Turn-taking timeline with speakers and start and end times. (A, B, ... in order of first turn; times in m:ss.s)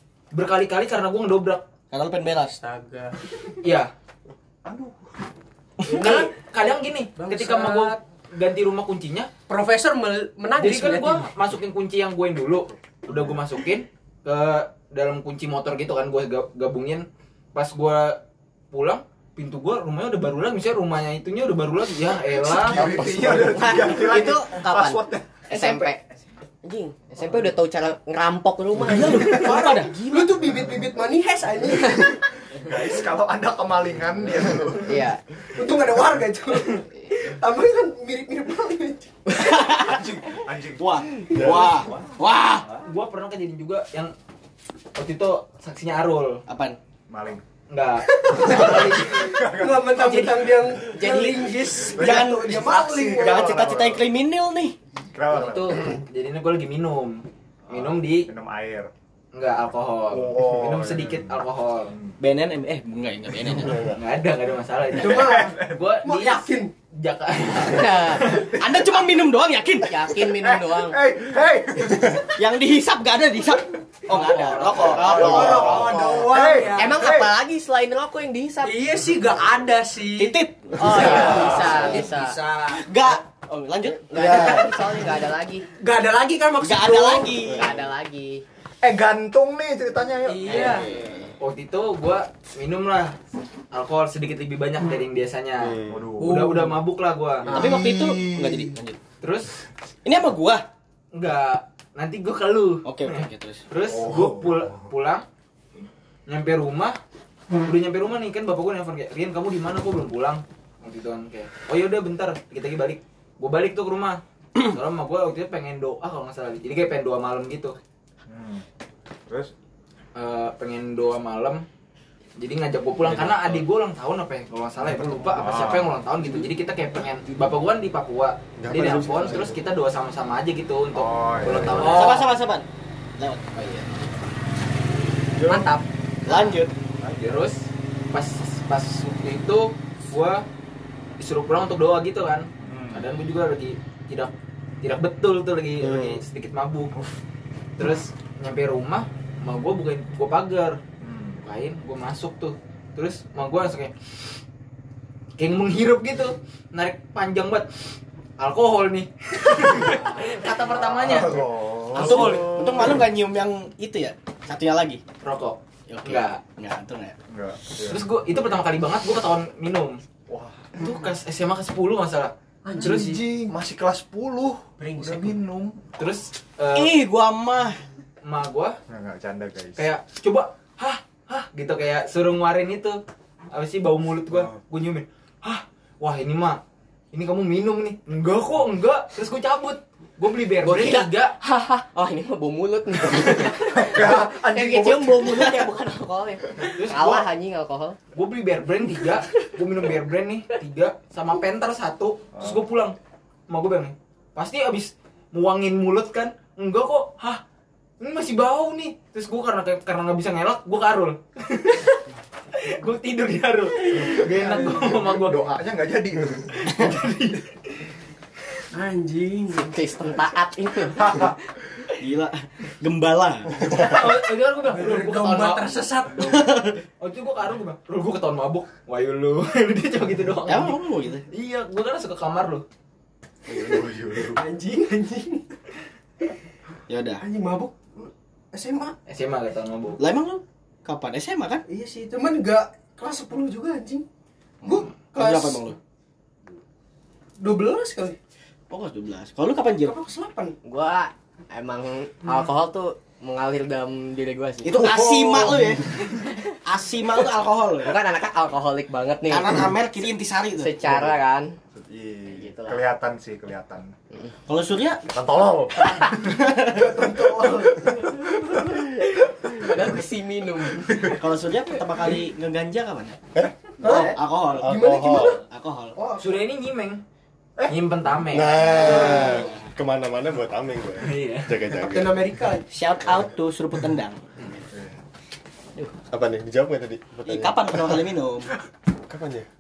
0:00.3-0:01.7 A
0:01.9-0:02.6 B
0:02.5-0:03.6 C
0:03.6-0:03.9 A
0:04.6-0:05.0 D
0:05.8-0:06.1 B
0:05.9-0:09.3 A
0:05.9-0:08.0 C
0:09.5-0:11.3 C
0:10.6-0:18.2 A
0:18.7-0:23.0 A
0:22.4-0:25.9 D
0:22.8-0:23.8 E
0:23.3-0:26.0 F
0:26.6-0:30.3 F
0:28.8-0:30.0 B
0:29.3-0:32.2 C
0:32.6-0:35.0 D
0:34.8-0:35.2 F
0:35.6-0:39.1 C
0:39.3-0:40.0 B
0:39.8-0:42.9 D
0:40.8-0:42.7 B
0:41.3-0:41.8 C
0:42.8-0:44.1 A
0:45.0-0:46.4 A
0:46.5-0:46.8 B
0:47.1-0:47.4 D
0:47.7-0:49.2 A
0:48.1-0:53.7 C
0:48.5-0:50.8 D
0:50.0-0:51.5 F
0:51.9-0:54.1 D
0:52.0-0:52.5 B
0:53.1-0:54.8 B
0:55.1-0:56.0 D
0:55.3-0:58.3 A
0:57.7-0:58.9 D
0:59.3-1:01.9 A
1:00.1-1:02.2 D
1:02.2-1:03.9 B
1:03.6-1:04.0 E
1:03.9-1:08.6 A
1:05.0-1:05.8 D
1:05.0-1:06.7 C
1:07.7-1:08.3 F
1:08.6-1:10.1 B
1:08.6-1:09.1 D
1:09.8-1:11.0 F
1:10.3-1:12.3 D
1:12.4-1:16.1 B
1:14.1-1:14.9 A
1:14.3-1:17.0 C
1:14.8-1:17.3 D
1:16.8-1:18.8 F
1:18.6-1:22.8 C
1:20.2-1:21.7 B
1:20.8-1:22.4 F
1:21.4-1:21.7 D
1:22.8-1:24.9 B
1:24.1-1:25.6 F
1:24.1-1:24.6 E
1:25.8-1:27.5 C
1:26.6-1:27.7 B
1:27.5-1:28.4 F
1:28.8-1:30.5 D
1:30.2-1:30.9 C
1:30.5-1:31.4 B
1:31.4-1:33.2 A
1:33.7-1:37.6 A
1:35.6-1:36.1 E
1:35.8-1:36.5 D
1:36.2-1:36.9 C
1:37.5-1:39.0 B
1:37.5-1:38.7 D
1:39.2-1:39.6 A
1:40.0-1:40.7 B
1:41.1-1:45.2 A
1:42.8-1:43.6 B
1:43.9-1:44.9 D
1:46.3-1:47.0 A
1:47.6-1:57.8 A
1:58.3-1:58.6 D
1:59.3-1:59.5 D
2:00.2-2:01.7 A
2:02.4-2:12.3 A
2:03.1-2:03.6 B
2:05.4-2:06.0 D
2:08.6-2:09.6 E
2:10.9-2:12.1 D
2:11.8-2:12.7 B
2:13.2-2:13.8 B
2:15.4-2:15.7 D
2:15.5-2:15.8 C
2:15.5-2:15.8 F
2:16.3-2:16.7 B
2:17.0-2:17.4 D
2:17.2-2:20.5 A
2:21.2-2:26.9 A
2:22.6-2:23.1 D
2:25.8-2:26.2 E
2:27.8-2:30.8 A
2:31.0-2:31.4 D
2:31.4-2:33.9 A
2:35.4-2:37.7 A
2:38.4-2:42.8 A
2:40.7-2:42.5 D
2:42.0-2:45.0 B
2:45.2-2:46.4 A
2:45.9-2:47.2 B
2:47.3-2:48.1 D
2:47.8-2:50.0 A
2:50.3-2:50.7 D
2:50.8-2:53.2 A
2:52.6-2:53.2 C
2:52.8-2:55.8 D
2:54.8-2:55.4 C
2:56.0-2:57.0 A
2:56.7-2:57.8 B
2:58.2-2:58.8 A
2:58.9-2:59.9 D
2:59.8-3:06.6 A
3:04.3-3:04.6 D
3:07.1-3:11.4 A
3:10.6-3:18.0 F
3:13.6-3:15.4 D
3:16.7-3:17.3 A
3:18.2-3:23.0 A
3:22.3-3:22.6 D
3:23.5-3:27.4 A
3:28.0-3:32.0 A
3:32.5-3:35.6 A
3:34.0-3:37.0 D
3:34.4-3:34.8 C
3:36.7-3:37.5 A
3:38.7-3:39.7 C
3:39.5-3:41.3 F
3:40.9-3:41.4 D
3:42.0-3:43.8 B
3:43.7-3:45.8 A
3:44.6-3:46.6 C
3:46.2-3:46.8 B
3:47.0-3:52.6 A
3:50.5-3:51.2 B
3:53.5-3:55.4 C
3:53.7-3:54.3 E
3:56.9-3:57.2 B
3:57.2-3:59.0 C
3:59.1-4:00.0 A
4:00.0-4:01.6 B
4:01.7-4:04.0 C
4:04.6-4:05.7 C
4:04.7-4:05.8 B
4:07.4-4:08.2 C
4:08.7-4:10.0 B
4:09.8-4:10.6 C
4:10.6-4:16.3 F
4:14.6-4:16.0 B
4:16.7-4:17.9 B
4:17.8-4:19.7 F
4:19.3-4:20.8 B
4:20.6-4:21.5 F
4:21.8-4:23.9 D
4:22.3-4:22.8 F
4:24.5-4:25.1 B
4:25.1-4:26.4 D
4:26.3-4:26.7 B
4:26.6-4:28.2 C
4:29.4-4:31.0 F
4:30.9-4:31.2 D
4:31.1-4:33.2 B
4:33.4-4:35.4 E
4:33.8-4:36.0 B
4:33.8-4:36.4 C
4:36.2-4:37.0 A
4:37.7-4:39.3 A
4:38.3-4:42.2 E
4:38.8-4:39.4 C
4:41.0-4:41.6 A
4:41.8-4:42.7 C
4:42.7-4:44.2 B
4:46.1-4:48.0 E
4:47.2-4:48.5 B
4:49.1-4:49.5 E